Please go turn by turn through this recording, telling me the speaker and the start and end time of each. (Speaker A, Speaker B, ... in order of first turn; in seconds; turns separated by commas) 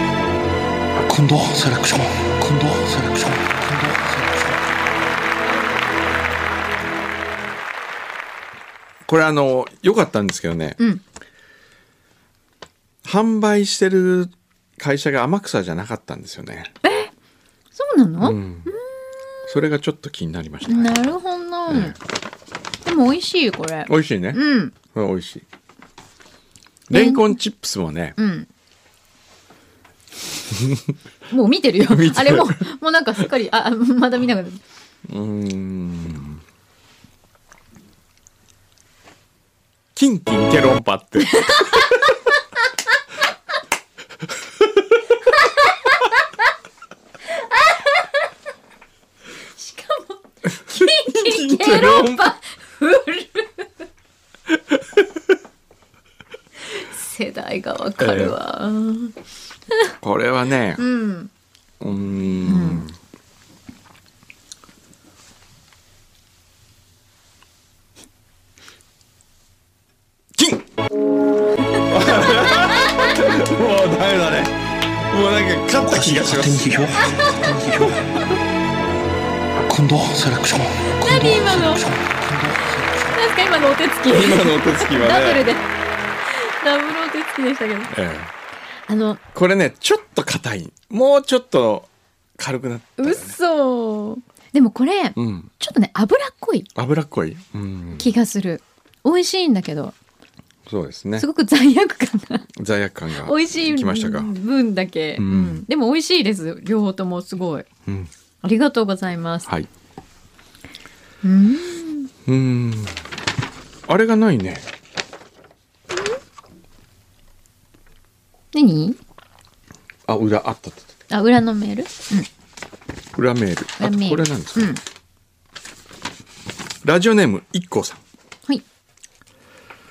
Speaker A: 1.0-4.6, Speaker B: 9.1-10.8, Speaker B: 13.0-16.7, Speaker C: 16.8-17.1, Speaker C: 17.8-19.5, Speaker B: 18.2-18.7, Speaker B: 19.5-21.1, Speaker C: 20.7-22.0, Speaker B: 21.7-22.0, Speaker C: 22.9-24.8, Speaker B: 23.9-25.4, Speaker B: 26.9-28.2, Speaker C: 26.9-27.4, Speaker C: 28.2-28.5, Speaker B: 30.5-30.9, Speaker C: 31.3-34.6, Speaker B: 31.9-32.6, Speaker B: 35.1-36.4, Speaker B: 40.0-41.9, Speaker C: 41.3-42.0, Speaker C: 47.3-48.3, Speaker C: 49.5-53.7, Speaker B: 50.5-52.3, Speaker C: 56.7-59.1, Speaker B: 58.0-58.4, Speaker B: 60.0-60.8, Speaker C: 60.8-61.3, Speaker B: 61.8-63.0, Speaker C: 62.5-62.8, Speaker B: 70.4-70.6, Speaker B: 71.9-74.6, Speaker C: 72.8-73.2, Speaker B: 75.1-76.8, Speaker A: 75.8-78.0, Speaker A: 79.7-83.2, Speaker C: 81.0-81.9, Speaker C: 83.1-85.7, Speaker B: 84.1-85.5, Speaker C: 86.2-87.9, Speaker B: 87.9-88.3, Speaker C: 88.9-89.2, Speaker B: 89.3-93.3, Speaker C: 93.0-96.7, Speaker B: 95.2-95.5, Speaker B: 96.8-98.1, Speaker C: 98.0-99.9, Speaker B: 100.7-101.3, Speaker C: 101.2-102.5, Speaker B: 102.6-104.3, Speaker C: 103.2-107.7, Speaker B: 105.2-105.6, Speaker C: 108.4-109.5, Speaker C: 111.2-112.1, Speaker B: 112.3-113.0, Speaker B: 113.9-114.7, Speaker C: 118.5-119.0, Speaker B: 120.1-120.9, Speaker C: 121.1-122.3, Speaker B: 123.1-124.8, Speaker C: 123.8-124.8, Speaker B: 126.8-128.0